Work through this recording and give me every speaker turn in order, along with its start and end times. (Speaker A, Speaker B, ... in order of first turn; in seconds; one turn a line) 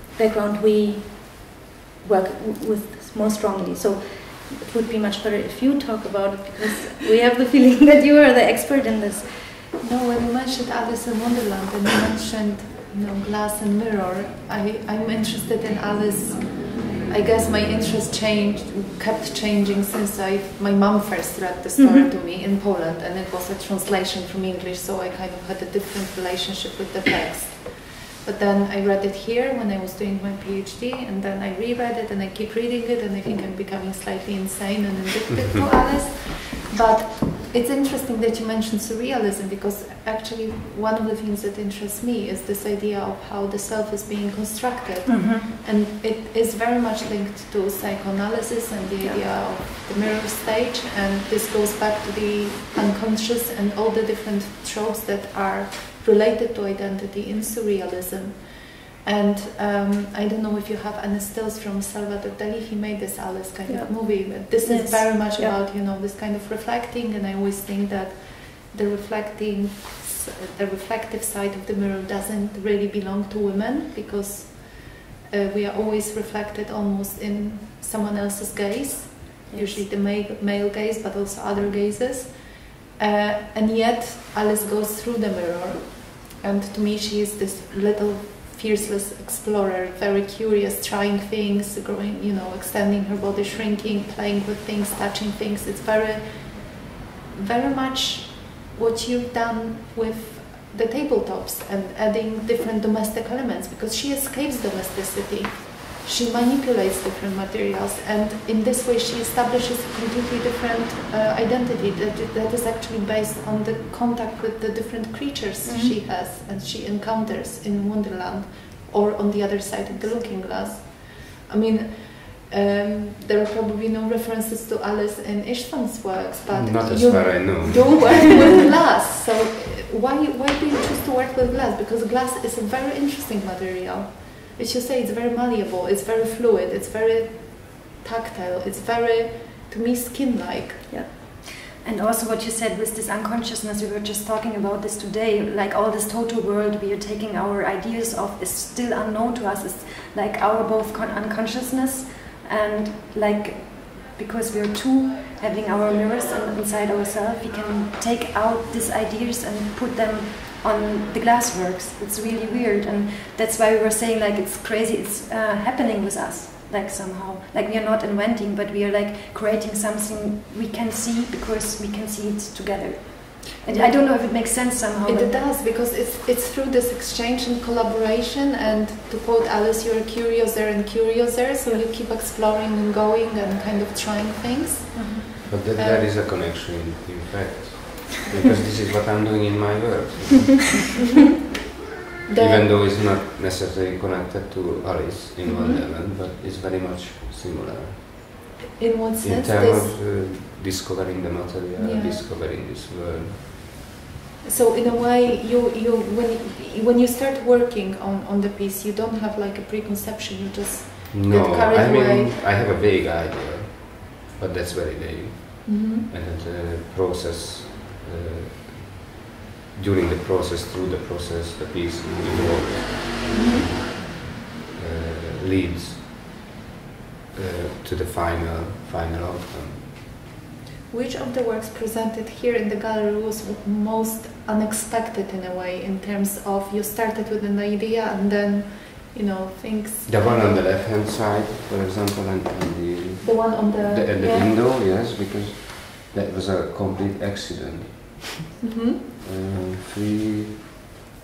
Speaker A: 0.1-9.7
Speaker B: 9.8-140.9
Speaker A: 21.8-22.1
Speaker C: 45.0-45.5
Speaker A: 63.7-65.5
Speaker C: 64.6-65.2
Speaker C: 79.5-79.8
Speaker A: 115.6-116.0
Speaker D: 126.5-128.6
Speaker C: 141.7-175.3
Speaker B: 173.7-186.1
Speaker D: 185.5-190.9
Speaker B: 192.2-192.8
Speaker D: 192.4-198.6
Speaker B: 195.4-195.8
Speaker B: 198.8-200.0
Speaker D: 199.2-203.5
Speaker B: 201.8-202.2
Speaker B: 204.4-212.3
Speaker D: 211.1-219.1
Speaker B: 215.7-216.1
Speaker D: 219.7-226.3
Speaker B: 223.3-223.7
Speaker D: 227.3-229.9
Speaker B: 230.9-240.7
Speaker D: 240.1-248.5
Speaker B: 243.2-244.5
Speaker B: 248.6-249.0
Speaker D: 249.2-250.6